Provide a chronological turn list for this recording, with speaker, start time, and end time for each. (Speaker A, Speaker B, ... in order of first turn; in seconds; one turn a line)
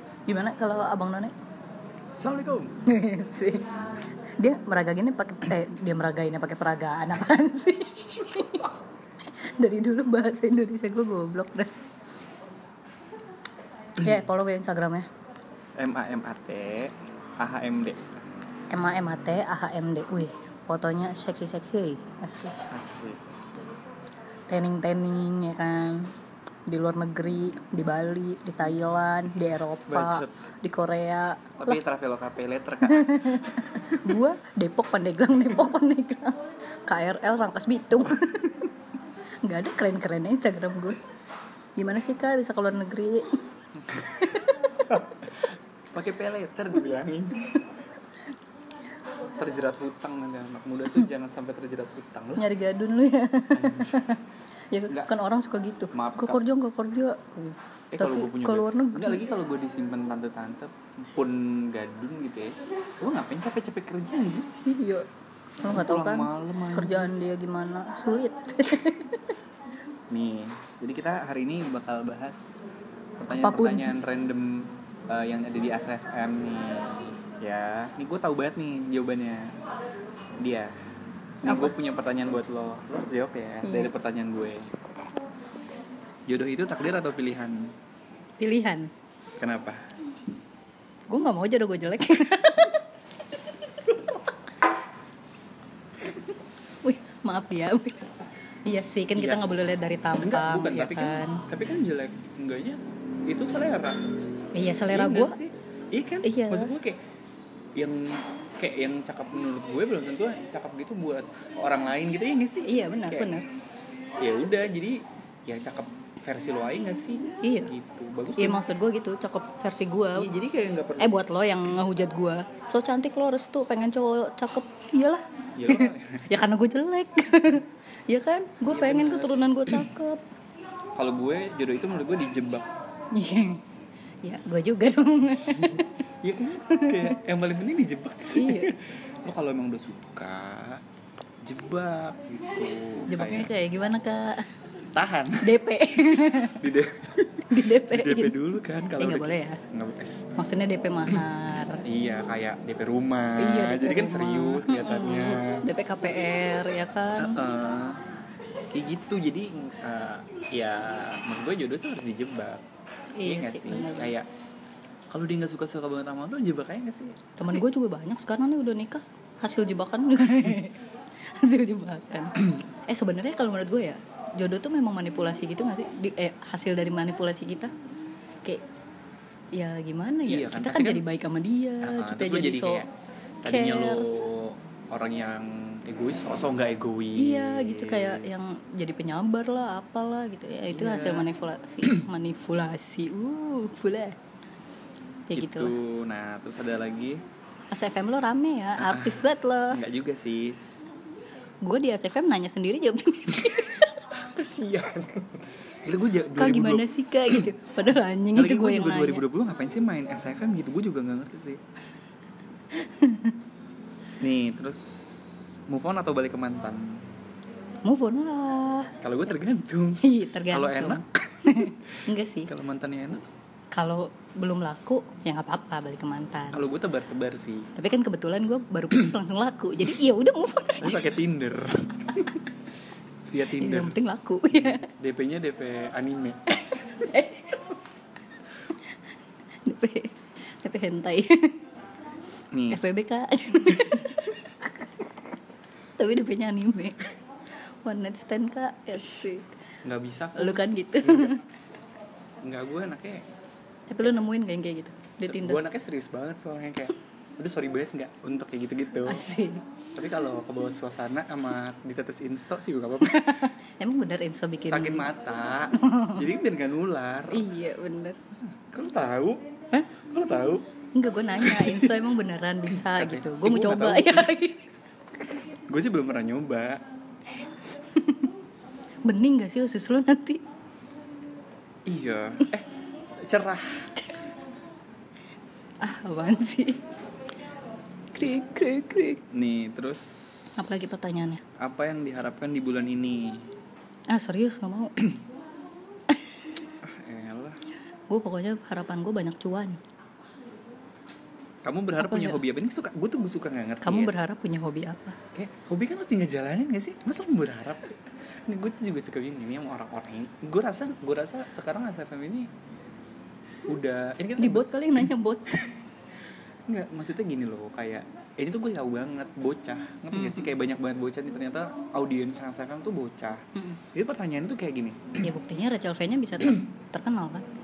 Speaker A: 0.3-1.3
Speaker B: 2.0-2.8
Speaker A: 2.9-3.7
Speaker A: 4.4-8.7
Speaker A: 9.2-11.7
Speaker A: 14.0-15.1
Speaker B: 15.8-18.1
Speaker A: 18.7-22.6
Speaker B: 22.7-23.2
Speaker A: 24.5-26.1
Speaker A: 26.7-31.8
Speaker B: 29.9-30.3
Speaker B: 31.6-34.0
Speaker A: 32.8-38.7
Speaker A: 39.4-41.0
Speaker A: 41.8-43.4
Speaker A: 43.9-45.0
Speaker B: 44.9-47.6
Speaker B: 49.3-52.5
Speaker A: 52.4-59.3
Speaker B: 53.5-54.1
Speaker B: 55.9-56.4
Speaker B: 57.9-64.5
Speaker A: 64.6-65.1
Speaker A: 65.6-69.3
Speaker B: 65.6-67.1
Speaker B: 70.1-72.6
Speaker B: 73.2-79.5
Speaker A: 73.3-73.9
Speaker B: 80.4-80.7
Speaker B: 81.4-84.7
Speaker A: 81.4-81.7
Speaker A: 83.6-83.9
Speaker B: 86.3-87.7
Speaker A: 88.4-88.9
Speaker B: 89.4-89.8
Speaker A: 91.1-92.8
Speaker A: 96.0-96.3
Speaker A: 96.8-98.1
Speaker A: 98.6-101.4
Speaker B: 99.2-99.5
Speaker B: 100.2-104.0
Speaker A: 104.5-105.4
Speaker B: 104.9-107.0
Speaker A: 106.2-106.7
Speaker B: 107.7-113.4
Speaker A: 112.6-113.4
Speaker B: 114.2-118.6
Speaker A: 117.4-117.7
Speaker A: 118.4-120.3
Speaker B: 120.1-121.2
Speaker A: 121.0-130.2
Speaker B: 125.6-126.3
Speaker B: 128.7-129.8
Speaker B: 130.9-132.7
Speaker A: 133.1-133.6
Speaker A: 134.2-136.1
Speaker B: 135.5-140.8
Speaker A: 136.7-137.2
Speaker A: 138.3-138.7
Speaker B: 141.4-143.5
Speaker A: 143.1-144.5
Speaker B: 144.9-145.6
Speaker A: 145.4-146.6
Speaker B: 146.2-150.3
Speaker A: 147.5-148.3
Speaker A: 149.0-149.6
Speaker A: 150.4-151.8
Speaker B: 151.8-155.6
Speaker A: 153.4-157.4
Speaker B: 157.2-158.0
Speaker B: 158.7-162.6
Speaker A: 163.2-164.1
Speaker B: 163.2-164.3
Speaker B: 165.1-167.6
Speaker A: 167.4-177.7
Speaker A: 179.5-182.8
Speaker B: 180.3-181.0
Speaker B: 181.8-182.9
Speaker B: 183.4-188.4
Speaker A: 183.4-184.1
Speaker A: 187.2-194.2
Speaker B: 190.7-191.3
Speaker A: 195.3-195.8
Speaker B: 195.3-197.2
Speaker A: 197.7-199.8
Speaker B: 198.8-200.6
Speaker A: 201.6-204.0
Speaker B: 204.1-207.5
Speaker A: 206.3-209.2
Speaker B: 208.3-211.6
Speaker A: 212.7-213.4
Speaker B: 214.2-217.0
Speaker A: 217.8-218.9
Speaker B: 219.0-221.7
Speaker A: 220.0-222.5
Speaker B: 222.4-223.2
Speaker A: 223.7-226.6
Speaker B: 226.5-227.7
Speaker A: 227.8-231.1
Speaker B: 230.8-232.5
Speaker B: 233.3-234.0
Speaker A: 233.5-234.9
Speaker B: 234.5-236.6
Speaker A: 236.7-237.8
Speaker A: 239.6-241.6
Speaker B: 242.5-242.9
Speaker A: 242.7-244.7
Speaker A: 246.0-247.1
Speaker A: 247.8-249.5
Speaker B: 249.8-251.4
Speaker A: 250.3-251.4
Speaker B: 252.4-253.2
Speaker A: 253.9-255.6
Speaker B: 255.2-259.3
Speaker A: 259.1-259.6
Speaker B: 259.9-263.5
Speaker A: 263.0-265.1
Speaker B: 264.6-267.5
Speaker A: 265.8-266.2
Speaker A: 267.3-268.2
Speaker B: 268.3-270.7
Speaker A: 270.9-274.7
Speaker B: 271.4-272.0
Speaker B: 272.7-274.4
Speaker B: 275.7-276.8
Speaker A: 277.9-278.3
Speaker A: 279.1-280.4
Speaker B: 281.9-283.9
Speaker A: 285.8-286.8
Speaker A: 288.1-289.2
Speaker B: 289.3-290.8
Speaker A: 290.6-291.4
Speaker B: 291.6-293.5
Speaker A: 294.1-295.1
Speaker A: 296.1-296.5
Speaker B: 296.8-297.6
Speaker A: 298.1-299.8
Speaker B: 301.6-304.2
Speaker A: 302.0-302.4
Speaker A: 303.8-305.2
Speaker B: 305.3-312.5
Speaker B: 313.7-314.7
Speaker A: 314.4-315.7
Speaker B: 316.7-323.4
Speaker A: 320.1-320.5
Speaker A: 323.6-323.8
Speaker B: 323.9-325.2
Speaker A: 325.2-327.4